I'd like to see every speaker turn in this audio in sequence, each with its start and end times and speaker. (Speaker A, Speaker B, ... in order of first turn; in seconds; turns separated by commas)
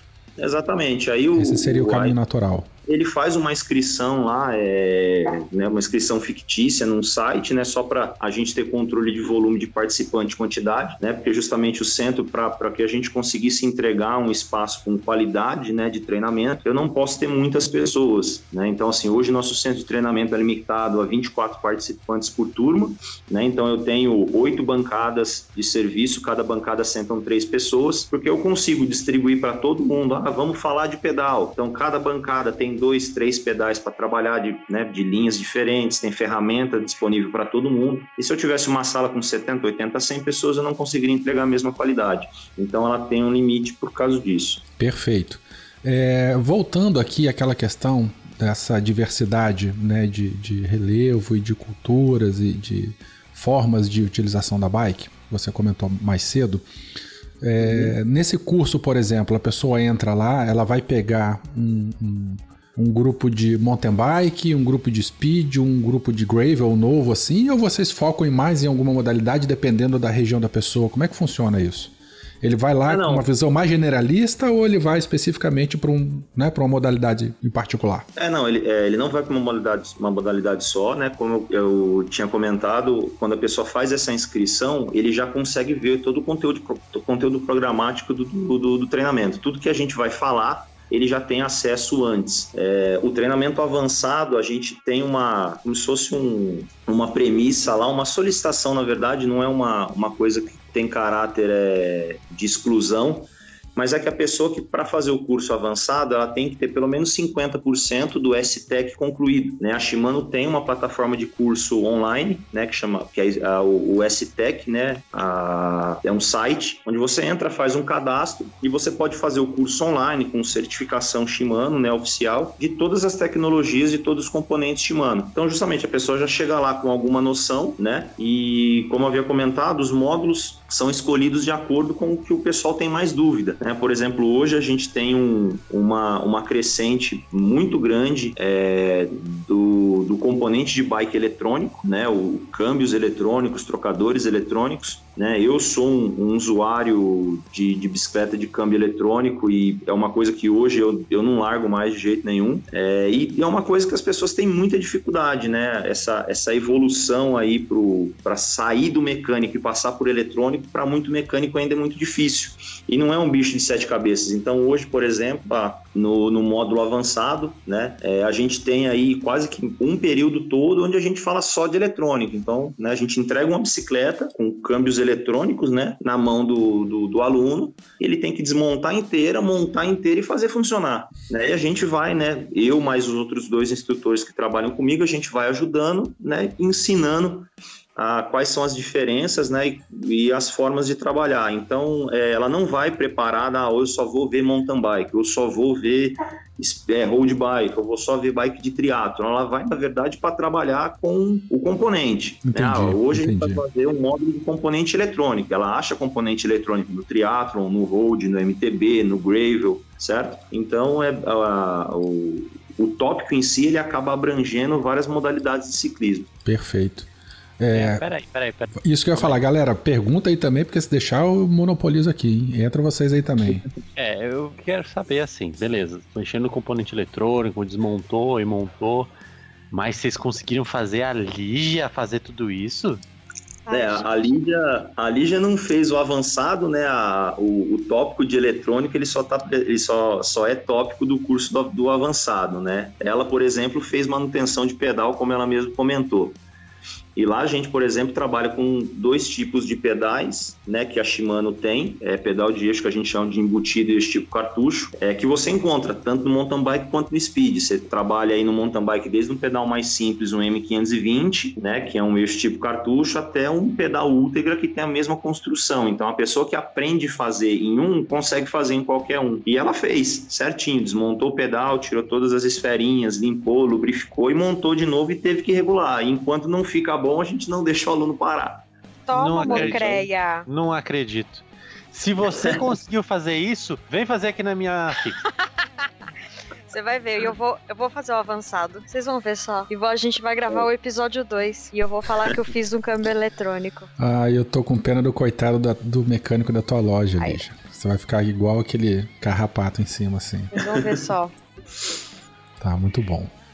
Speaker A: 0.4-2.1, Speaker B: 1.3-2.7, Speaker A: 2.9-44.6, Speaker B: 44.8-56.6, Speaker B: 57.4-78.0, Speaker A: 57.6-57.9, Speaker A: 72.8-73.2, Speaker A: 78.2-216.3, Speaker B: 202.4-203.6, Speaker B: 216.4-217.1, Speaker B: 217.6-218.0, Speaker C: 217.7-219.4, Speaker B: 218.8-223.6, Speaker C: 224.0-229.1, Speaker C: 229.7-233.0, Speaker D: 233.7-234.3, Speaker A: 233.7-246.4, Speaker A: 247.2-278.6, Speaker D: 279.1-280.5, Speaker C: 279.1-285.2, Speaker A: 279.5-280.0, Speaker A: 282.3-282.6, Speaker D: 286.7-293.9, Speaker B: 294.0-300.7, Speaker D: 300.5-301.3, Speaker B: 302.6-303.3